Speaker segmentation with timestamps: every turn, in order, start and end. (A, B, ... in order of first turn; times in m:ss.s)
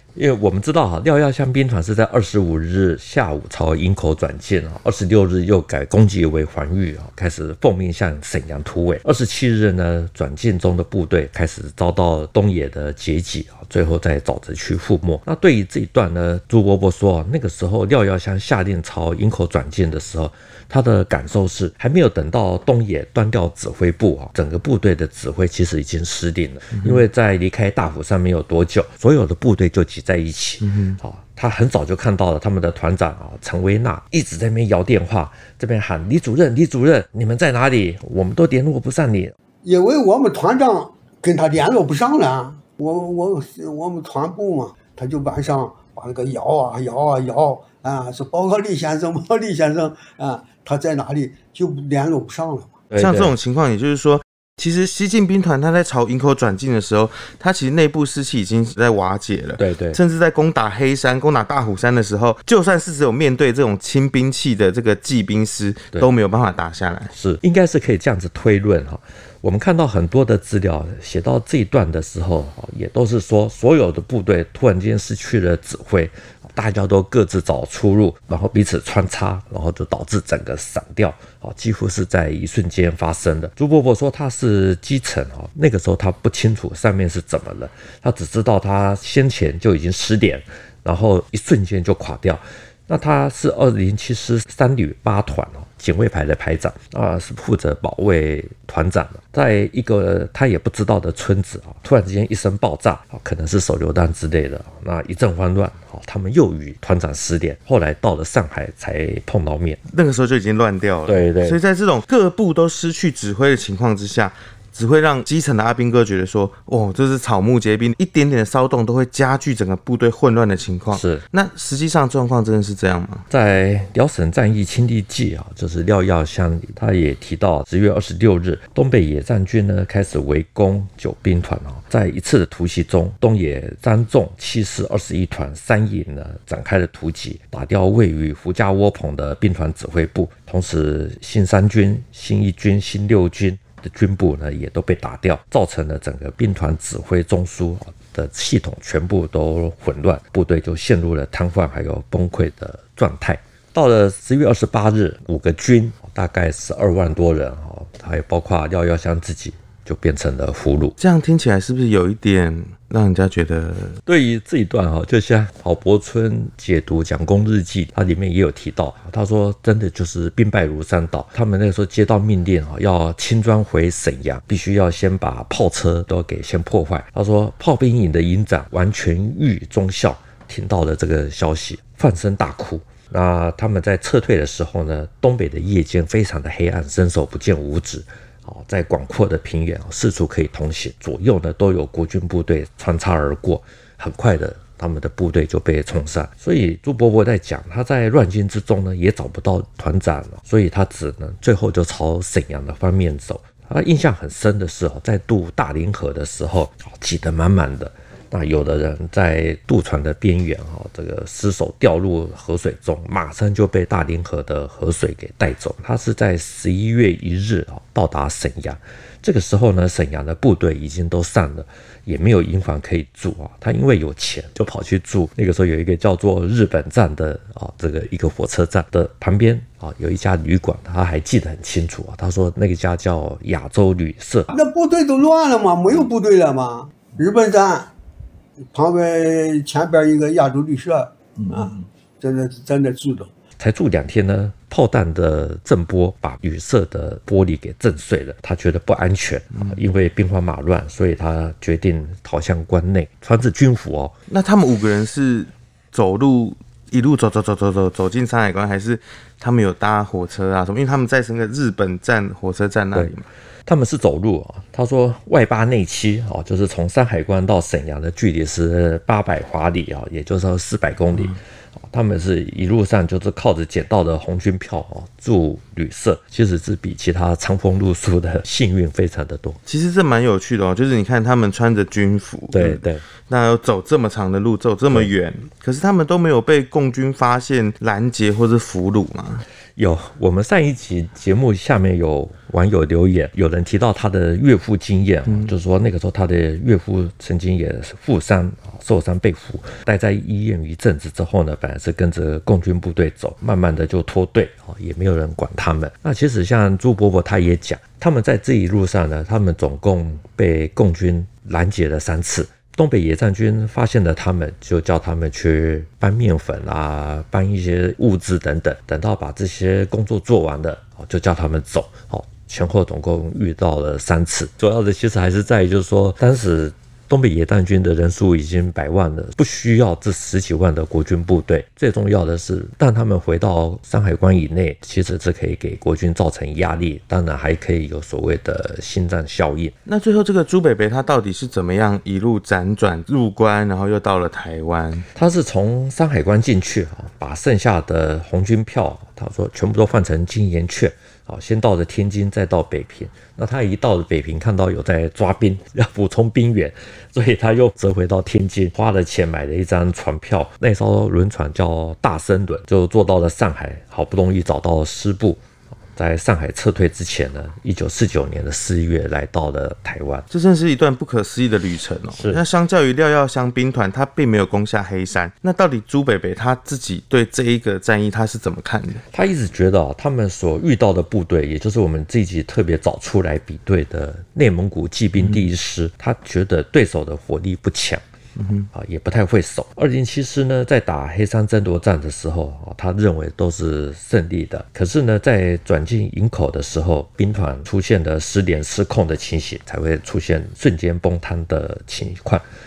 0:00.1-0:39.3 A
0:39.6-0:52.8 B
0:52.9-0:53.3 A
0:52.9-1:07.1 C
0:59.6-1:00.0 A
1:07.1-1:49.8 A
1:49.9-2:03.3 C
1:51.0-1:51.6 A
2:00.9-2:01.2 A
2:03.3-2:41.0 A
2:41.0-2:44.0 C
2:44.0-3:54.5 A
3:54.5-3:57.9 B
3:58.7-4:03.3 B
4:03.6-4:14.1 A
4:14.3-4:23.2 C
4:23.6-4:39.6 A
4:39.7-4:49.4 C
4:42.5-4:43.0 A
4:49.8-5:39.7 A
5:39.8-5:45.1 C
5:45.1-6:05.4 A
6:05.9-6:10.2 A
6:10.3-6:19.0 C
6:12.2-6:12.4 A
6:19.1-6:28.0 A
6:28.4-6:28.7 C
6:28.7-6:42.4 A